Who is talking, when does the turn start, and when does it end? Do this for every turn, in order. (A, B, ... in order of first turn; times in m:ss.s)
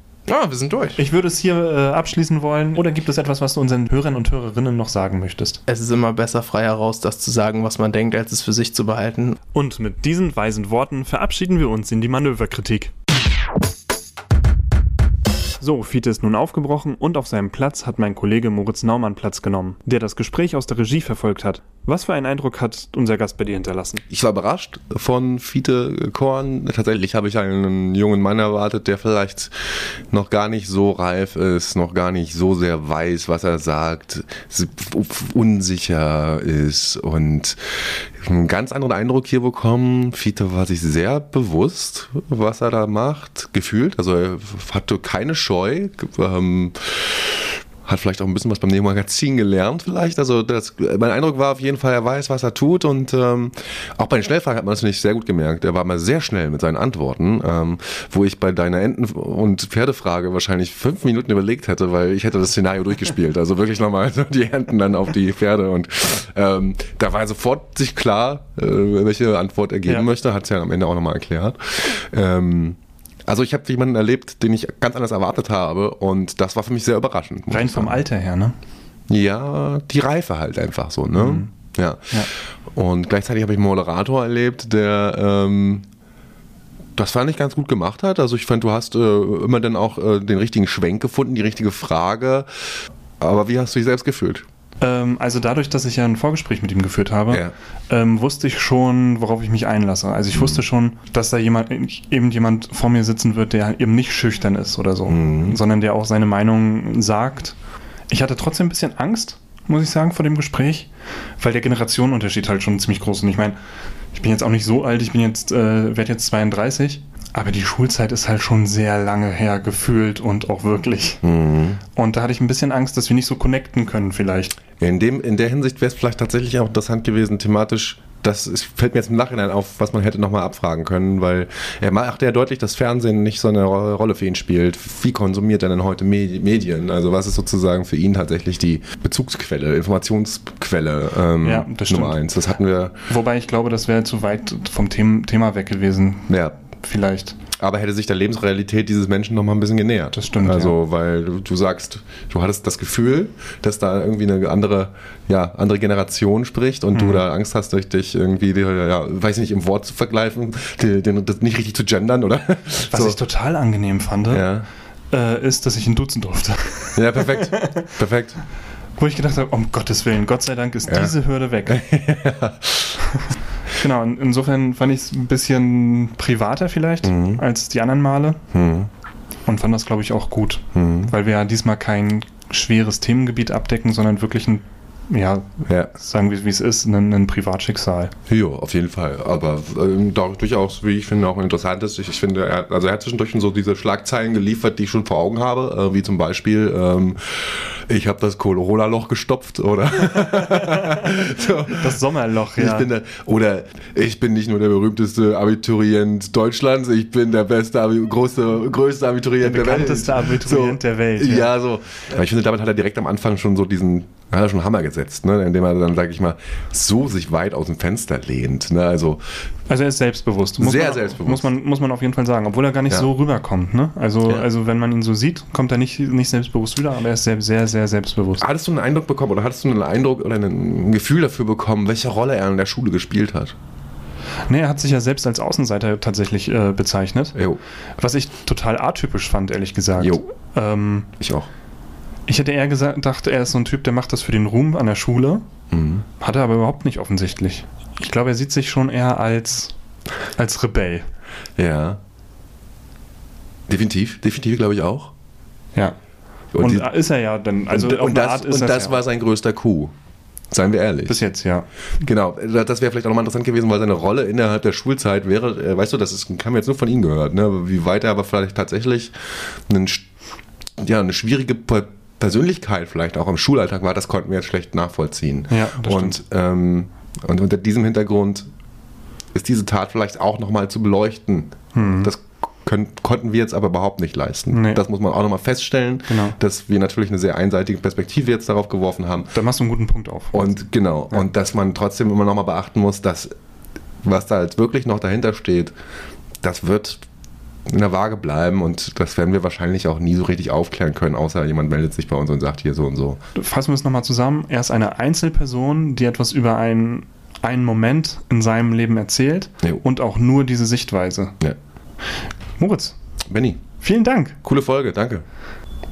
0:00.3-0:01.0 A
0:01.0-0:05.6 B
0:05.7-0:09.4 A
0:09.5-0:12.9 B
0:15.6-0:24.0 B
0:24.1-1:18.0 C
1:17.5-1:18.5 B
1:19.1-1:25.8 C
1:21.1-1:21.5 B
1:27.0-1:32.5 C
1:33.2-1:34.4 C
1:34.8-1:47.6 B
1:45.1-1:45.6 C
1:48.1-1:53.6 B
1:54.1-2:01.2 B
2:01.2-2:01.8 C
2:01.9-2:04.6 B
2:04.8-2:23.0 C
2:21.4-2:22.2 B
2:23.1-2:27.4 B
2:26.3-2:26.6 C
2:27.5-2:43.2 C
2:30.1-2:30.7 B
2:36.9-2:37.2 B
2:42.9-2:44.4 B
2:44.3-2:44.7 C
2:45.1-2:47.9 B
2:46.9-2:48.4 C
2:49.0-2:51.8 B
2:50.9-2:51.1 C
2:51.6-2:53.1 C
2:53.8-2:58.4 B
2:57.0-2:57.4 C
2:58.5-2:58.9 C
2:59.4-3:08.1 B
3:00.7-3:01.1 C
3:05.7-3:05.9 C
3:08.3-3:39.4 C
3:20.6-3:21.1 B
3:21.7-3:22.9 B
3:29.4-3:31.5 B
3:39.7-3:48.4 B
3:40.6-3:41.5 C
3:48.4-3:53.5 C
3:54.5-3:57.4 B
3:58.0-4:01.1 B
4:01.2-4:01.5 C
4:02.3-4:05.4 B
4:05.7-4:06.0 C
4:06.2-4:09.8 B
4:10.3-4:11.0 B
4:11.6-4:12.0 C
4:13.7-4:15.1 C
4:16.5-4:16.9 C
4:16.6-4:19.0 B
4:17.7-4:19.9 C
4:20.5-4:21.2 C
4:21.1-4:21.7 B
4:22.0-4:30.1 C
4:30.8-4:38.5 C
4:35.5-4:36.2 B
4:39.3-4:49.4 C
4:41.7-4:42.1 B
4:44.5-4:44.8 B
4:46.1-4:46.3 B
4:49.3-4:50.5 B
4:50.3-4:53.3 C
4:54.0-4:55.7 C
4:56.4-4:57.0 C
4:57.7-5:03.2 C
5:03.4-5:11.3 B
5:12.0-5:13.0 B
5:13.3-5:13.6 C
5:13.8-5:14.4 B
5:14.4-5:15.2 C